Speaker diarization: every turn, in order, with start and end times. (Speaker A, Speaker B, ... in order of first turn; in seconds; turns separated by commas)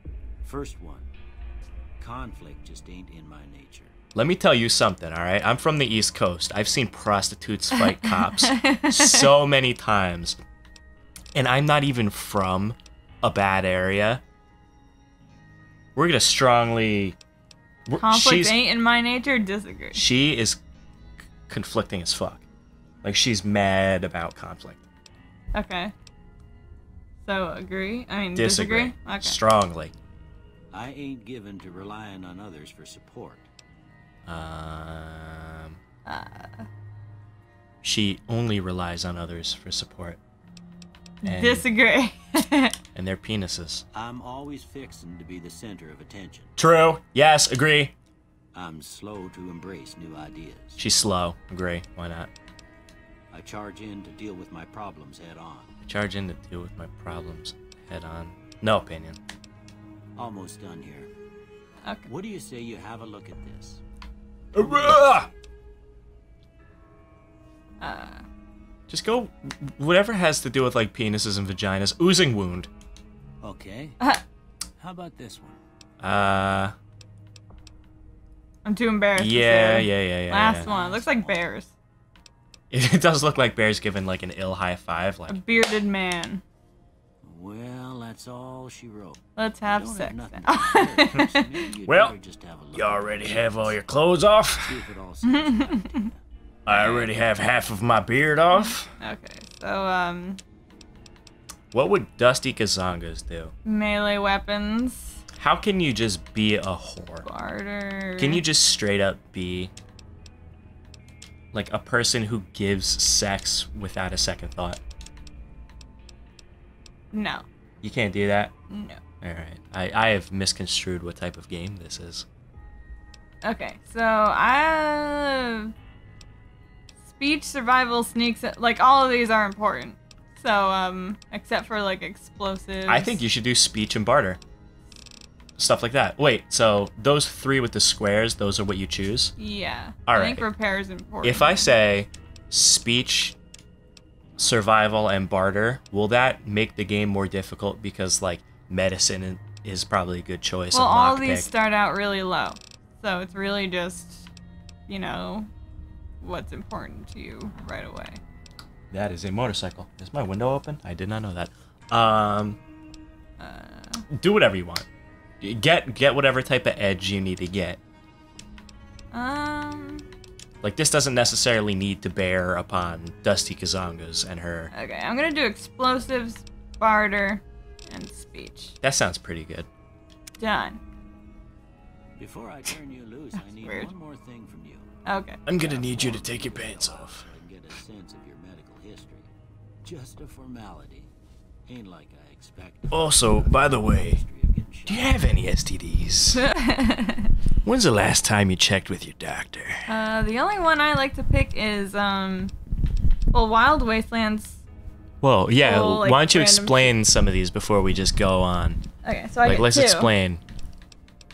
Speaker A: 0.4-1.1, Speaker A: 2.0-3.9, Speaker B: 4.1-10.4, Speaker C: 7.8-9.3, Speaker B: 11.3-14.2, Speaker B: 15.9-17.1, Speaker B: 17.9-18.6, Speaker C: 18.0-20.0, Speaker B: 19.9-20.6, Speaker B: 21.5-22.4, Speaker B: 23.0-24.9, Speaker C: 25.5-25.9, Speaker C: 27.2-29.4, Speaker B: 28.3-29.9, Speaker A: 30.7-33.5, Speaker B: 34.3-35.8, Speaker C: 36.0-36.6, Speaker B: 37.8-40.2, Speaker C: 41.2-42.8, Speaker B: 41.2-41.6, Speaker B: 42.9-43.8, Speaker A: 43.9-46.5, Speaker B: 46.6-47.9, Speaker A: 48.5-50.8, Speaker B: 50.8-52.3, Speaker A: 53.3-55.7, Speaker B: 55.8-59.2, Speaker A: 60.1-61.1, Speaker A: 62.0-63.8, Speaker B: 64.5-65.3, Speaker A: 64.7-65.0, Speaker C: 67.8-68.2, Speaker B: 68.9-72.7, Speaker A: 73.4-74.0, Speaker A: 74.8-75.6, Speaker B: 76.0-76.7, Speaker C: 78.6-81.7, Speaker B: 79.2-80.7, Speaker A: 80.4-81.5, Speaker B: 82.7-85.4, Speaker C: 85.3-86.4, Speaker A: 87.2-93.8, Speaker C: 89.3-91.5, Speaker B: 91.9-92.1, Speaker B: 92.7-94.8, Speaker A: 94.6-96.2, Speaker C: 95.2-96.0, Speaker B: 96.7-98.9, Speaker C: 96.7-97.1, Speaker C: 98.5-100.4, Speaker B: 101.7-103.5, Speaker C: 103.6-105.2, Speaker B: 105.4-107.2, Speaker C: 107.2-108.4, Speaker B: 108.2-109.7, Speaker B: 111.5-114.8, Speaker C: 117.1-117.5, Speaker B: 117.8-118.5, Speaker C: 118.7-119.0, Speaker B: 119.2-122.2, Speaker C: 123.4-125.7, Speaker C: 127.1-133.2, Speaker B: 132.9-134.4, Speaker B: 135.6-139.3, Speaker C: 139.4-141.7, Speaker B: 140.1-140.4, Speaker B: 141.2-143.3, Speaker B: 144.4-151.5, Speaker C: 150.7-154.3, Speaker C: 154.9-155.5, Speaker C: 156.2-158.2, Speaker B: 158.9-162.6, Speaker C: 163.4-164.0, Speaker B: 164.2-164.8, Speaker B: 165.4-167.8, Speaker C: 169.1-170.1, Speaker B: 170.6-174.7, Speaker C: 174.7-178.8, Speaker B: 178.8-179.7, Speaker C: 180.4-180.8, Speaker A: 182.2-184.9, Speaker C: 183.6-183.9, Speaker C: 185.1-185.4, Speaker B: 185.4-187.2, Speaker A: 185.6-189.3, Speaker A: 189.8-191.1, Speaker A: 191.7-195.2, Speaker B: 192.9-194.2, Speaker B: 194.9-196.4, Speaker C: 196.3-197.3, Speaker B: 197.6-199.9, Speaker C: 199.9-202.5, Speaker C: 203.3-204.6, Speaker B: 205.2-208.8, Speaker C: 205.6-207.0, Speaker C: 209.0-210.1, Speaker B: 209.4-210.4